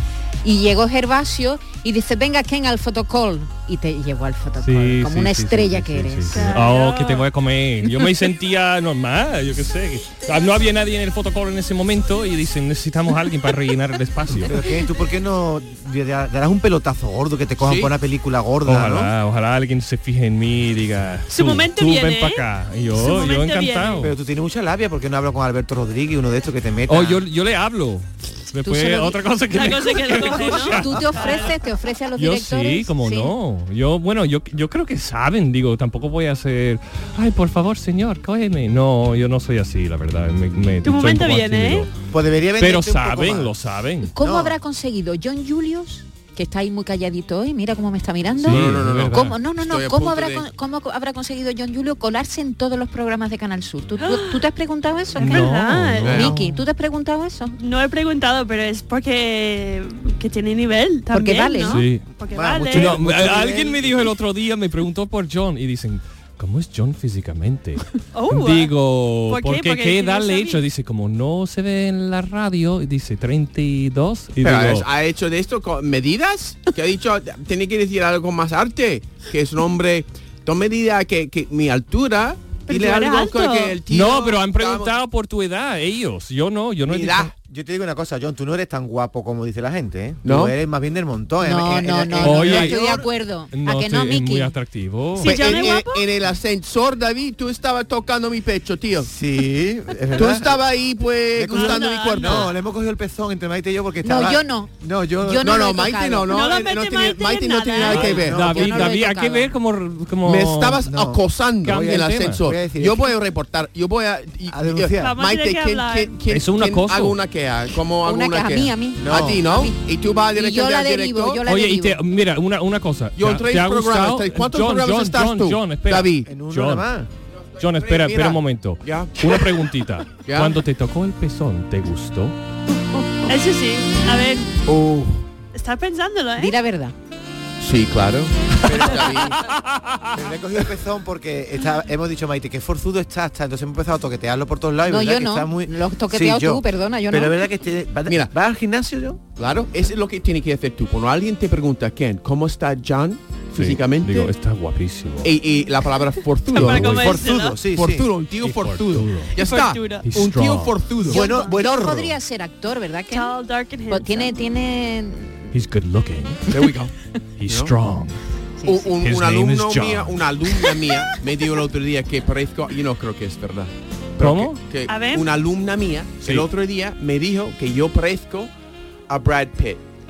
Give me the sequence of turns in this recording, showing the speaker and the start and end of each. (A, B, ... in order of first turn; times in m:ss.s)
0:00.4-0:06.5 A
0:04.6-0:14.6 B
0:06.3-0:07.2 C
0:14.4-0:19.1 D
0:17.6-0:17.9 E
0:18.6-0:24.1 B
0:21.3-0:22.4 C
0:23.0-0:24.1 C
0:24.0-0:27.2 D
0:26.9-0:31.3 B
0:28.6-0:33.3 A
0:29.5-0:31.5 C
0:32.2-0:41.9 B
0:40.8-0:41.9 C
0:42.1-0:43.5 D
0:42.6-0:44.1 B
0:44.1-0:57.6 A
0:44.2-0:44.6 D
0:48.4-0:50.4 E
0:48.4-0:49.4 B
0:54.0-0:54.4 C
0:55.2-0:56.6 B
0:55.2-0:56.2 C
0:56.0-0:56.3 E
0:57.6-1:03.3 C
1:01.1-1:01.8 A
1:01.6-1:02.1 B
1:02.3-1:03.7 D
1:02.7-1:14.8 B
1:08.1-1:08.7 C
1:09.3-1:10.6 C
1:14.4-1:24.9 E
1:22.6-1:23.8 C
1:23.9-1:27.3 B
1:26.9-1:27.3 E
1:27.4-1:33.1 D
1:30.2-1:30.5 E
1:31.4-1:34.5 A
1:32.2-1:32.8 B
1:33.5-1:35.5 B
1:35.2-1:36.1 C
1:35.2-1:39.1 E
1:39.0-1:40.7 D
1:40.2-1:42.5 E
1:41.4-1:45.6 D
1:41.5-1:42.5 C
1:44.0-1:46.4 A
1:45.4-1:48.4 E
1:46.2-1:48.1 C
1:47.8-1:50.8 B
1:48.0-1:49.5 A
1:48.2-1:48.9 D
1:50.2-2:01.4 E
1:50.8-1:53.1 D
1:51.6-1:52.4 B
1:54.5-1:55.2 D
1:55.0-1:56.2 C
1:56.3-1:57.2 B
1:58.0-1:59.8 A
1:59.0-1:59.5 D
2:00.3-2:02.0 A
2:01.4-2:06.9 B
2:03.2-2:06.3 E
2:06.2-2:07.1 D
2:07.5-2:09.4 E
2:07.6-2:12.4 B
2:10.2-2:10.6 E
2:13.3-2:14.5 C
2:14.7-2:15.2 E
2:15.5-2:16.5 C
2:16.4-2:16.9 A
2:17.6-2:19.4 E
2:19.3-2:20.1 B
2:20.1-2:29.2 D
2:24.8-2:27.4 A
2:29.4-2:34.3 E
2:33.6-2:35.4 B
2:35.2-2:41.4 E
2:36.5-2:37.6 C
2:36.6-2:37.1 B
2:36.6-2:38.1 D
2:38.4-2:39.4 B
2:39.4-2:40.1 C
2:40.0-2:41.0 B
2:41.1-2:43.4 A
2:41.1-2:42.2 D
2:41.2-2:41.6 C
2:43.1-2:44.4 C
2:43.9-2:45.5 A
2:45.5-2:46.5 B
2:46.5-2:46.9 E
2:47.4-2:48.2 B
2:47.4-2:47.7 E
2:48.6-2:49.0 A
2:48.6-2:58.5 E
2:48.9-2:50.3 B
2:54.2-2:54.6 B
2:54.9-2:55.3 C
2:56.2-2:56.5 B
2:59.1-2:59.8 E